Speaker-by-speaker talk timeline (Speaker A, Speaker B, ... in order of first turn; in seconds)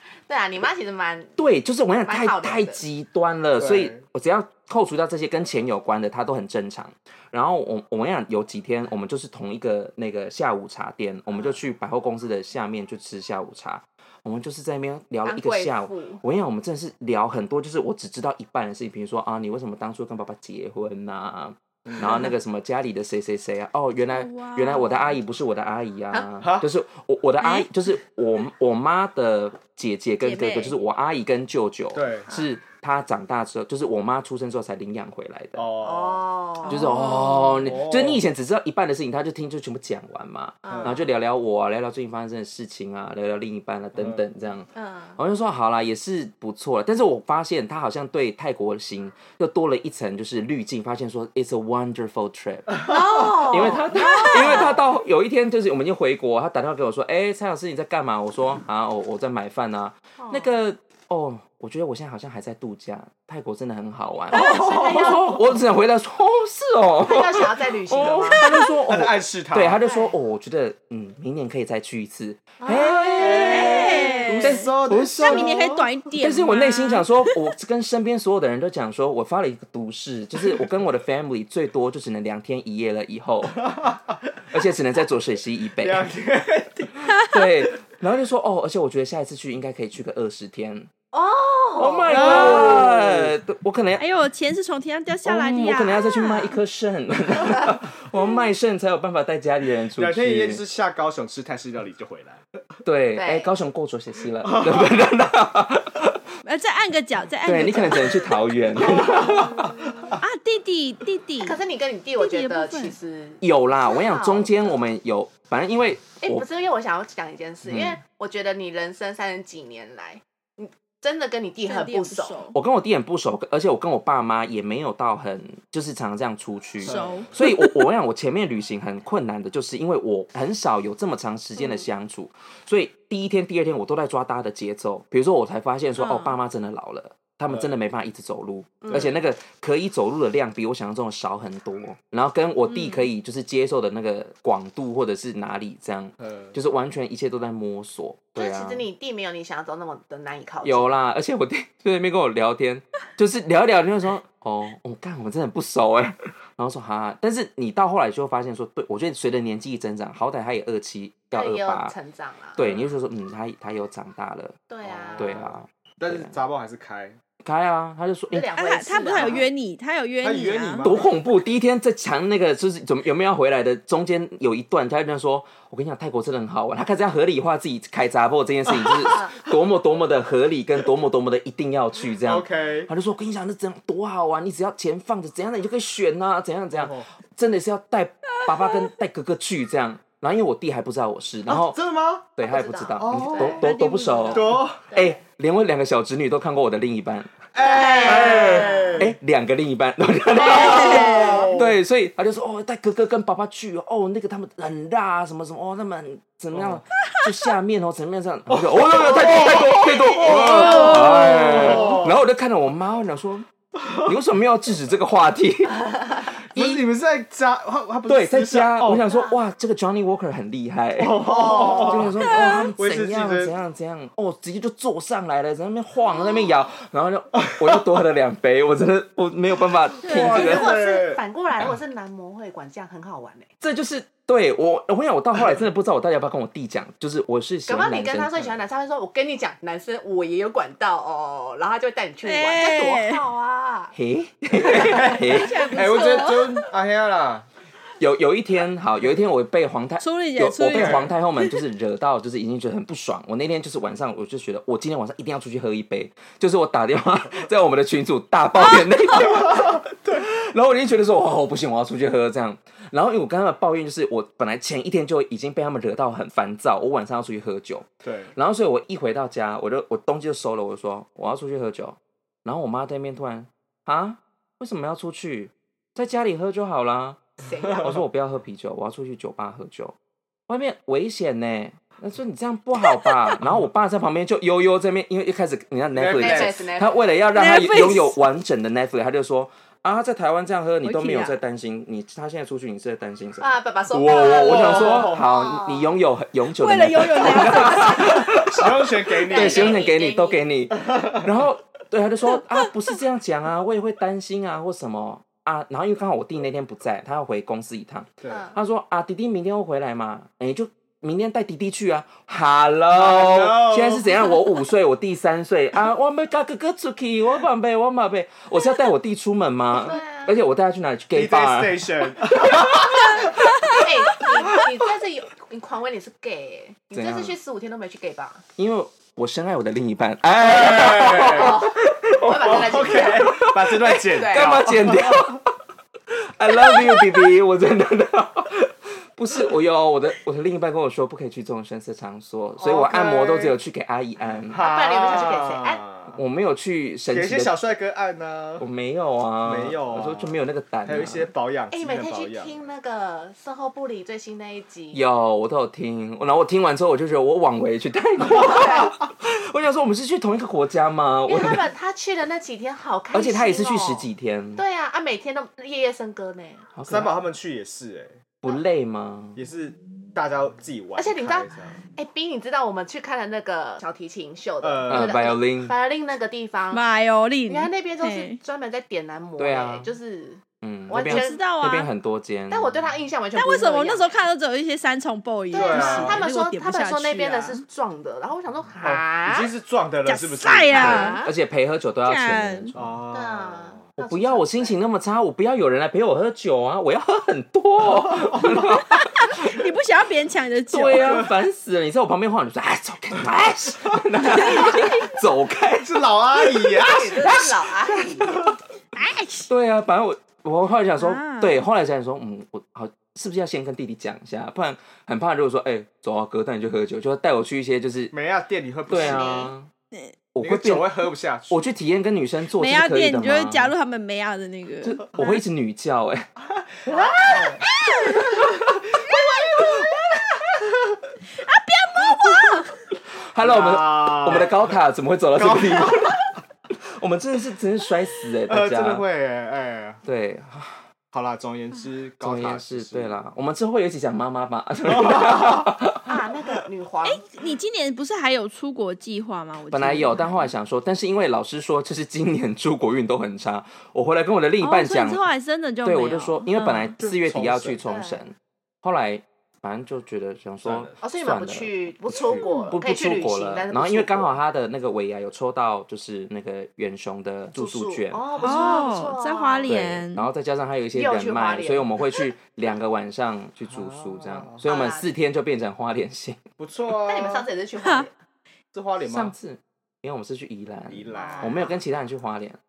Speaker A: 0.3-1.4, 2.1-2.8, 11.3-11.6, 15.2-16.2, 35.8-36.9, 40.6-41.1, 44.8-45.2, 52.8-54.9, 60.2-60.5, 64.3-65.6, 67.0-68.7, 69.8-70.2, 72.6-74.5, 91.1-92.9, 103.2-103.5, 108.8-110.2, 111.4-114.8, 116.2-122.4, 131.6-131.9, 138.8-139.2, 148.3-150.9, 161.3-162.6, 164.7-165.4, 168.3-169.5, 179.1-179.3, 192.4-193.7, 194.9-195.2, 197.6-199.1, 200.3-201.5, 208.9-211.1, 219.1-219.4, 221.5-222.0, 230.2-233.5, 237.7-243.9, 277.4-277.9, 286.1-287.0, 293.4-296.0, 297.7-298.2, 299.1-300.5, 308.3-308.6, 319.7-320.4, 323.2-328.4, 330.8-334.7, 342.7-343.4, 344.6-345.8, 351.7-355.0, 358.3-358.9, 361.3-366.6, 371.0-376.8, 377.5-381.4, 382.5-384.1, 385.5-389.5, 390.7-391.3, 393.1-394.8, 406.8-408.4, 418.9-419.5, 426.9-427.2, 446.1-447.2, 457.9-458.2, 461.0-464.4, 467.5-469.7, 470.9-472.3, 474.6-475.1, 477.0-478.1, 481.2-481.7
Speaker B: 1.4-35.7, 36.7-75.5, 76.2-83.7, 84.5-86.0, 87.3-90.9, 91.8-94.0, 95.2-100.6, 102.8-106.2, 107.5-110.0, 113.4-116.5, 117.7-118.0, 122.5-148.8, 150.7-161.9, 162.6-164.6, 165.2-166.4, 167.4-168.5, 170.8-191.8, 192.3-197.3, 198.0-216.8, 218.1-230.7, 233.6-238.4, 243.9-245.9, 248.0-277.2, 277.8-279.9, 280.5-323.8, 326.9-327.4, 328.6-335.4, 336.1-344.6, 346.1-347.5, 348.6-351.3, 354.9-361.7, 363.1-364.6, 366.8-367.2, 368.4-369.4, 374.9-375.7, 379.4-379.9, 380.6-382.8, 390.7-393.0, 394.0-399.5, 400.7-407.5, 409.5-418.1, 418.9-419.7, 420.3-423.7, 424.8-426.3, 428.1-430.0, 432.2-432.6, 433.1-439.1, 440.1-440.9, 442.2-446.2, 449.7-455.2, 455.8-468.2, 469.7-476.4, 479.0-482.6
Speaker C: 3.6-4.0, 21.9-22.3, 26.4-26.7, 31.9-32.3, 35.5-36.2, 37.6-38.2, 40.7-41.0, 44.0-44.2, 52.8-53.5, 64.3-65.2, 68.8-69.8, 73.2-75.9, 83.7-84.2, 85.8-87.1, 92.1-93.3, 100.0-102.4, 104.5-104.9, 126.8-127.5, 137.5-137.7, 146.2-146.5, 162.6-162.9, 164.8-167.2, 170.2-171.1, 182.2-182.9, 186.7-187.1, 191.5-192.3, 193.0-193.6, 194.3-194.9, 197.5-199.1, 200.4-201.8, 206.5-206.8, 208.5-209.5, 210.2-212.2, 216.6-219.1, 221.0-223.6, 230.1-231.2, 244.5-247.5, 250.6-251.1, 268.0-268.3, 277.7-277.9, 285.9-286.6, 294.1-295.3, 298.0-299.8, 300.9-301.2, 312.9-314.1, 321.1-323.8, 330.5-331.7, 332.4-335.3, 342.6-343.5, 344.5-346.2, 347.1-348.7, 349.4-352.6, 366.9-368.2, 369.4-371.8, 374.6-375.2, 385.5-386.2, 388.8-391.0, 392.8-393.8, 405.8-408.5, 418.1-419.5, 420.4-421.7, 426.9-427.7, 433.4-434.8, 435.4-436.2, 438.5-440.0, 441.1-443.2, 444.9-445.6, 457.0-457.8, 460.6-461.0, 462.1-462.5, 468.4-468.7, 473.7-474.6, 476.6-477.5, 478.7-479.3, 480.9-481.7
Speaker D: 24.1-25.2, 27.4-27.7, 30.2-30.8, 36.7-37.7, 73.4-77.1, 92.1-92.8, 94.0-96.6, 106.4-108.3, 110.2-111.6, 112.2-113.0, 121.7-122.6, 126.8-127.9, 136.0-136.4, 142.7-143.1, 168.6-170.9, 193.4-194.6, 200.6-201.5, 210.5-211.4, 222.2-222.7, 230.0-230.6, 242.2-243.2, 245.3-246.6, 250.0-251.6, 287.3-288.2, 290.8-291.4, 296.5-298.1, 376.7-378.4, 380.9-381.9, 383.4-387.6, 390.1-391.2, 392.1-392.7, 398.4-401.3, 404.2-404.9, 408.9-409.5, 411.0-411.6, 422.6-425.4, 427.6-428.4, 431.4-432.7, 447.1-450.5, 454.6-456.9, 462.4-462.7, 468.4-470.3